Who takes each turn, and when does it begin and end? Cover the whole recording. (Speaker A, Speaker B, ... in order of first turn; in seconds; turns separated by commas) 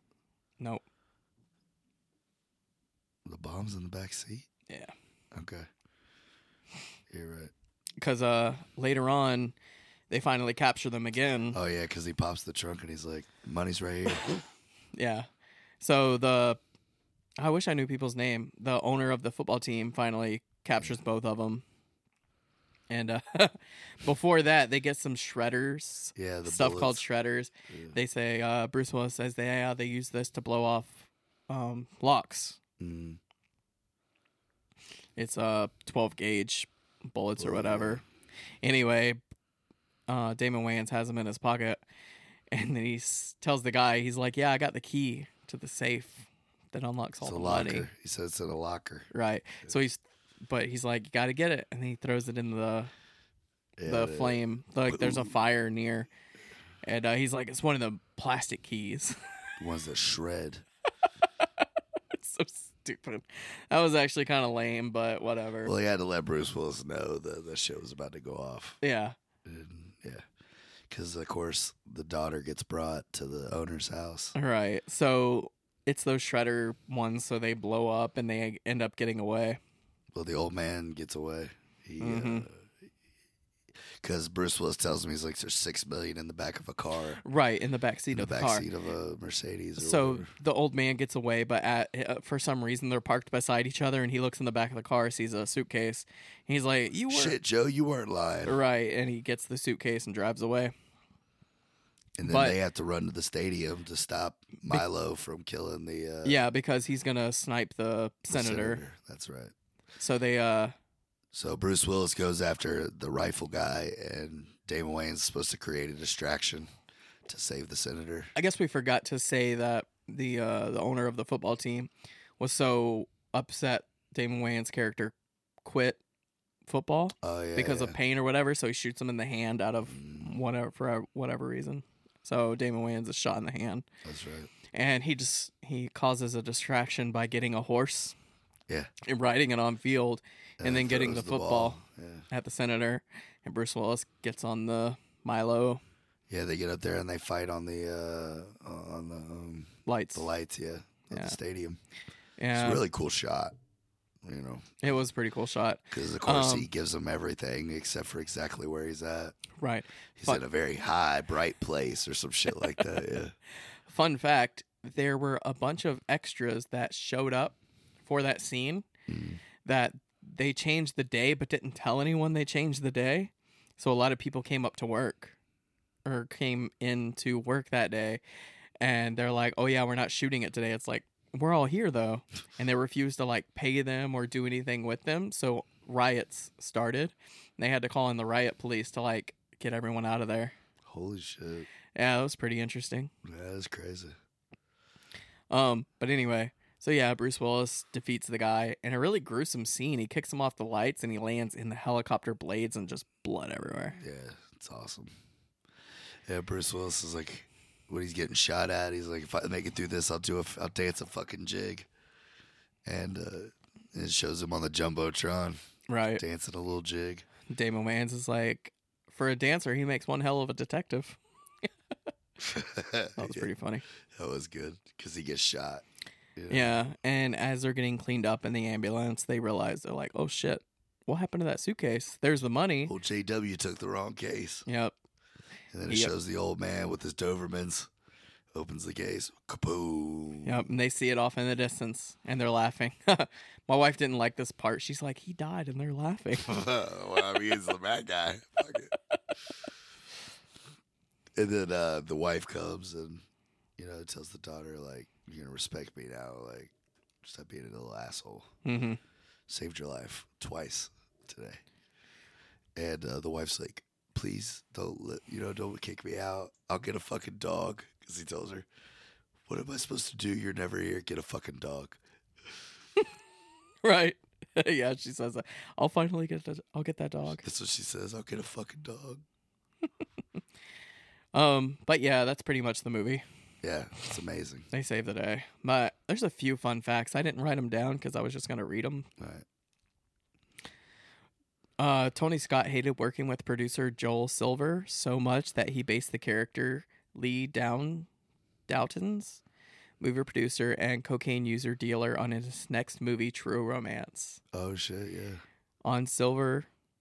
Speaker A: 3.2-4.5, Speaker A: 5.3-5.7, Speaker A: 7.1-7.5, Speaker B: 8.0-9.5, Speaker B: 10.1-11.6, Speaker A: 11.5-14.3, Speaker B: 14.9-15.3, Speaker B: 15.8-16.6, Speaker B: 17.4-21.6, Speaker B: 22.9-32.6, Speaker A: 26.1-27.0, Speaker A: 27.7-27.9, Speaker A: 32.8-33.2, Speaker B: 35.2-38.0, Speaker A: 37.4-38.0, Speaker B: 38.6-39.2, Speaker B: 40.1-41.8, Speaker B: 42.5-47.9, Speaker A: 47.2-49.1, Speaker B: 49.1-52.9, Speaker A: 53.8-55.3, Speaker B: 53.9-56.1, Speaker B: 56.8-59.3, Speaker A: 59.6-60.6, Speaker B: 62.1-65.7, Speaker A: 65.6-68.8, Speaker B: 68.8-69.2, Speaker A: 69.4-70.2, Speaker A: 70.9-74.3, Speaker B: 74.3-79.6, Speaker A: 80.1-82.7, Speaker B: 82.0-82.5, Speaker A: 84.0-87.2, Speaker B: 87.2-88.7, Speaker A: 88.1-90.3, Speaker B: 89.8-97.4, Speaker A: 97.1-98.5, Speaker B: 98.5-100.7, Speaker A: 102.2-106.4, Speaker B: 102.2-102.6, Speaker B: 106.2-108.8, Speaker A: 108.3-109.5, Speaker B: 110.0-110.7, Speaker A: 111.3-116.7, Speaker A: 117.3-118.3, Speaker B: 118.3-125.1, Speaker B: 125.6-126.0, Speaker B: 126.7-133.8, Speaker A: 127.2-128.0, Speaker A: 129.9-130.4, Speaker A: 134.0-134.5, Speaker B: 134.7-138.2, Speaker B: 139.0-141.8, Speaker A: 140.6-142.3, Speaker B: 142.3-145.8, Speaker A: 146.3-151.8, Speaker B: 149.8-150.3, Speaker B: 151.1-151.3, Speaker B: 152.4-152.8, Speaker A: 152.5-153.5, Speaker A: 154.2-154.8, Speaker B: 154.8-156.7, Speaker A: 155.9-159.4, Speaker B: 159.6-160.4, Speaker A: 160.2-163.3, Speaker B: 162.6-162.9, Speaker B: 163.9-168.8, Speaker A: 169.1-169.4, Speaker B: 169.6-175.3, Speaker B: 176.0-178.2, Speaker B: 178.8-190.5, Speaker A: 190.8-191.7, Speaker B: 191.9-193.1, Speaker A: 193.2-194.1, Speaker B: 195.5-204.0, Speaker A: 204.0-205.1, Speaker A: 206.3-211.9, Speaker A: 212.8-215.6, Speaker B: 215.9-216.2, Speaker A: 216.2-217.3, Speaker B: 217.5-221.2, Speaker A: 222.4-223.5, Speaker B: 223.2-223.8, Speaker A: 224.1-225.8, Speaker A: 226.3-226.8, Speaker B: 226.5-232.9, Speaker A: 232.8-234.6, Speaker B: 234.7-234.9, Speaker A: 235.7-237.9, Speaker B: 235.9-236.1, Speaker A: 238.5-240.6, Speaker B: 240.4-246.5, Speaker A: 246.4-248.9, Speaker A: 251.3-253.2, Speaker A: 253.8-258.5, Speaker B: 258.6-259.0, Speaker A: 259.5-261.6, Speaker A: 262.8-268.7, Speaker A: 269.5-272.0, Speaker B: 273.8-277.4, Speaker A: 277.4-279.2, Speaker B: 281.3-283.2, Speaker A: 283.6-284.7, Speaker B: 284.7-289.1, Speaker A: 289.2-289.4, Speaker B: 291.8-298.1, Speaker B: 298.7-299.4, Speaker B: 300.0-304.4, Speaker A: 304.5-305.4, Speaker B: 305.8-306.7